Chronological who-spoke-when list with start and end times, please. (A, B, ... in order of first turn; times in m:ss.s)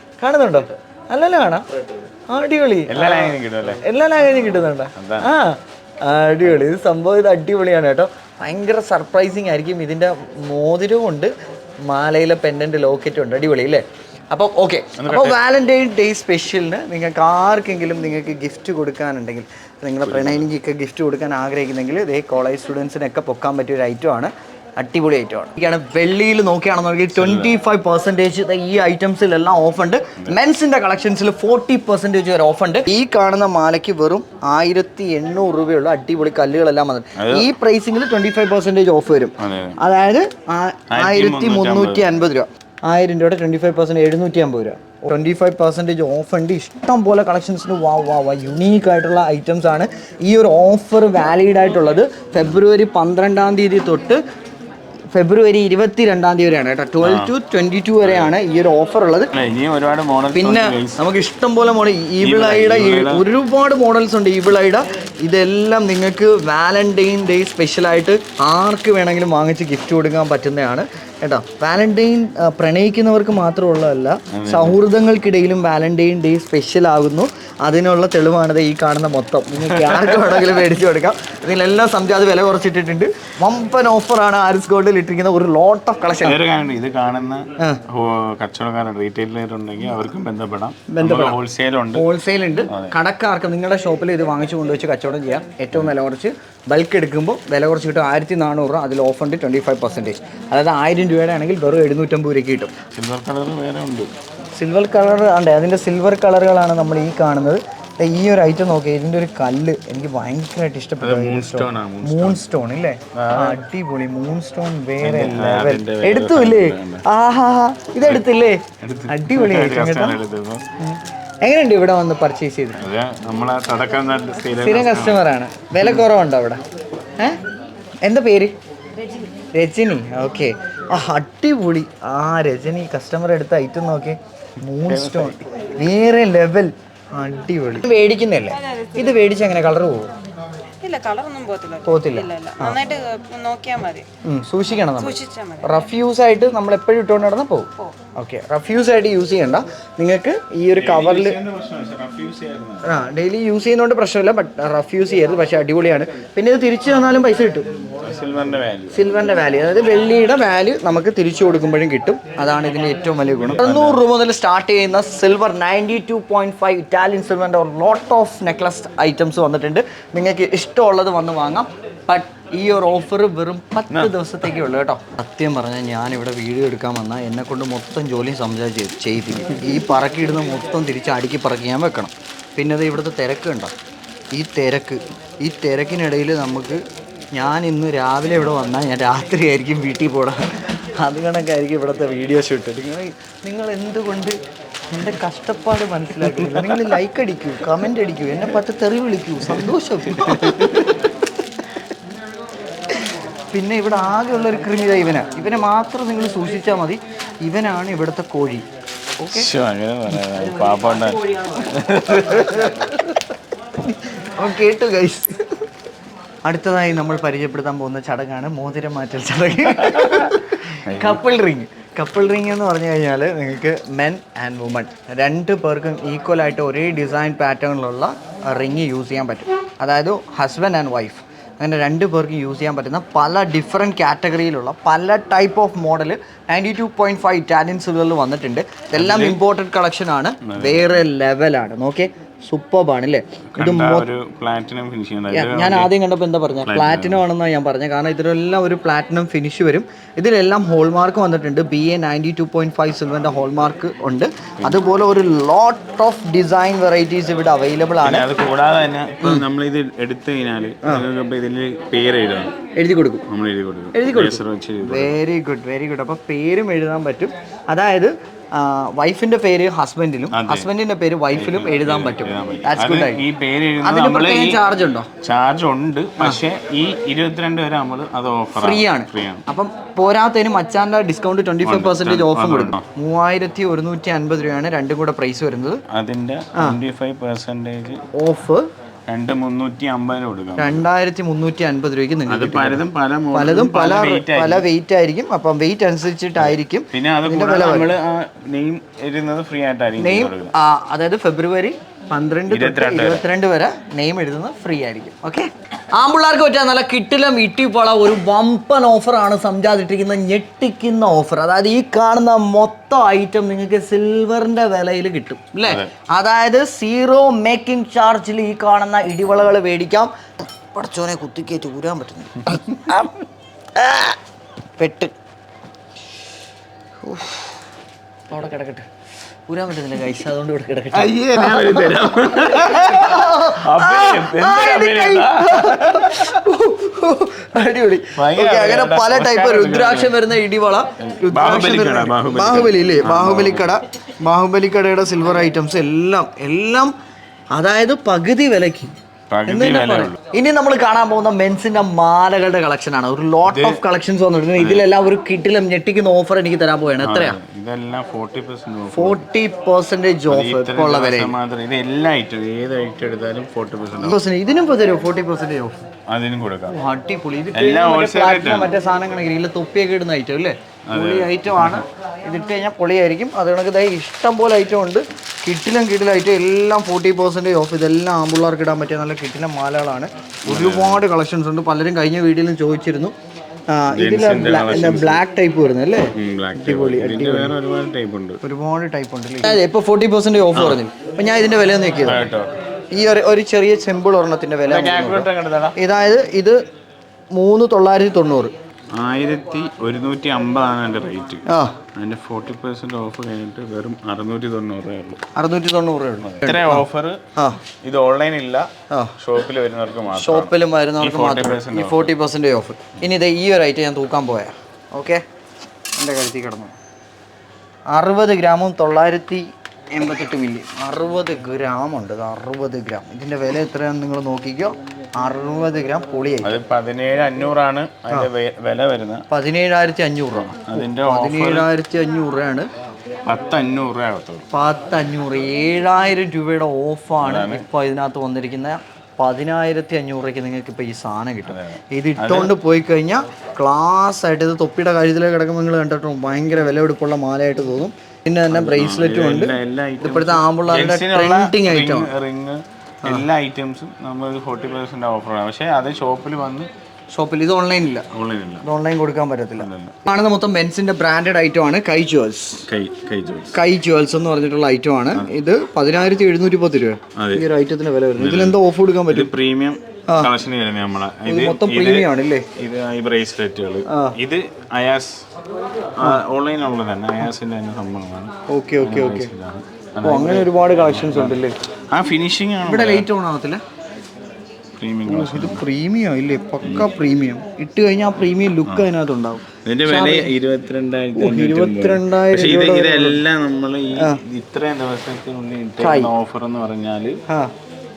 0:00.2-0:01.7 A
0:02.3-0:11.3 A
0:02.9-0:03.8 B
0:05.0-0:05.3 B
0:11.8-0:54.2 A
0:15.0-0:15.4 B
0:20.0-0:20.5 B
0:27.1-0:27.5 B
0:37.2-0:37.5 B
0:39.4-0:39.8 B
0:40.9-0:42.1 B
0:55.1-0:59.3 A
0:57.0-0:57.3 B
0:58.0-0:58.3 B
0:59.3-1:01.0 B
1:00.3-1:26.4 A
1:02.2-1:03.2 B
1:14.3-1:14.8 B
1:19.7-1:20.4 B
1:26.2-1:32.1 B
1:30.9-1:31.4 A
1:31.9-1:42.7 A
1:32.7-1:33.0 B
1:42.9-1:44.1 B
1:44.5-2:00.2 A
1:51.0-1:52.4 B
1:53.1-1:53.6 B
1:55.0-1:57.0 B
1:58.8-2:00.6 B
2:00.8-2:02.8 A
2:02.8-2:05.3 B
2:04.6-2:06.6 A
2:08.0-2:08.6 A
2:09.5-2:20.1 A
2:14.8-2:15.4 B
2:18.5-2:19.2 C
2:20.8-2:24.1 C
2:21.8-2:22.8 A
2:24.2-2:31.4 A
2:25.0-2:25.7 C
2:30.7-2:32.9 B
2:32.8-2:37.7 A
2:38.0-2:39.1 B
2:38.9-3:03.7 A
2:43.4-2:44.0 B
3:04.3-3:06.8 A
3:07.3-3:14.4 A
3:14.9-3:21.1 A
3:16.4-3:16.9 B
3:19.6-3:21.0 B
3:23.5-3:28.6 A
3:29.2-3:29.5 A
3:29.3-3:32.9 B
3:32.3-3:32.9 A
3:33.8-3:35.6 A
3:36.4-4:04.1 A
3:39.9-3:41.2 B
3:59.0-3:59.4 B
4:00.4-4:01.0 B
4:03.5-4:05.9 B
4:05.3-4:18.2 A
4:06.6-4:07.2 B
4:18.0-4:22.6 B
4:22.8-4:23.2 A
4:23.3-4:25.2 B
4:23.9-4:33.2 A
4:30.3-4:30.7 B
4:31.3-4:39.4 B
4:33.8-4:35.1 A
4:38.6-4:45.8 A
4:41.6-4:42.9 B
4:45.9-4:48.0 B
4:48.1-4:48.7 A
4:49.1-4:50.9 B
4:50.6-4:57.9 A
4:52.3-4:54.7 B
4:56.4-5:00.5 B
5:00.0-5:23.1 A
5:02.5-5:03.2 B
5:15.6-5:15.9 B
5:23.8-5:24.2 A
5:24.8-5:25.1 A
5:27.0-5:27.6 A
5:28.3-5:28.9 A
5:29.5-5:47.0 A
5:30.9-5:36.4 B
5:38.1-5:40.2 B
5:41.0-5:43.8 B
5:47.5-5:48.9 A
5:49.3-5:50.2 B
5:49.5-5:57.4 A
5:53.4-5:53.8 B
5:54.6-5:54.9 B
5:57.0-5:59.3 B
5:58.9-6:01.3 A
6:00.3-6:04.2 B
6:04.0-6:05.8 A
6:06.1-6:06.8 B
6:06.7-6:23.1 A
6:07.5-6:08.7 B
6:10.9-6:11.8 B
6:20.4-6:21.1 B
6:23.7-6:27.5 A
6:23.9-6:25.2 B
6:26.1-6:28.4 B
6:28.4-6:32.3 A
6:30.6-6:30.8 B
6:32.0-6:32.5 B
6:32.9-6:36.6 A
6:34.6-6:35.8 B
6:37.3-6:38.5 A
6:38.9-6:45.2 B
6:41.5-6:41.8 A
6:45.4-6:46.8 A
6:46.2-6:47.2 B
6:47.8-6:52.1 B
6:50.1-6:55.2 A
6:56.0-6:56.7 A
6:57.9-7:06.6 A
7:06.4-7:09.3 B
7:09.3-7:12.7 A
7:10.3-7:11.7 B
7:13.3-7:14.5 B
7:14.5-7:32.1 A
7:17.2-7:17.7 B
7:21.4-7:22.6 B
7:28.5-7:36.7 B
7:37.1-7:38.1 A
7:38.1-7:38.7 B
7:38.6-7:42.7 A
7:39.6-7:40.0 B
7:42.7-7:43.6 B
7:43.5-7:49.3 A
7:47.2-7:47.5 B
7:48.2-7:55.3 B
7:51.2-7:52.5 A
7:53.9-7:54.2 A
7:56.0-8:01.4 B
7:58.5-7:59.3 A
8:00.0-8:01.6 A
8:01.9-8:03.1 B
8:02.6-8:03.6 A
8:04.8-8:05.6 B
8:05.1-8:10.3 A
8:06.6-8:06.9 B
8:09.6-8:17.2 B
8:11.2-8:13.2 A
8:15.8-8:16.1 A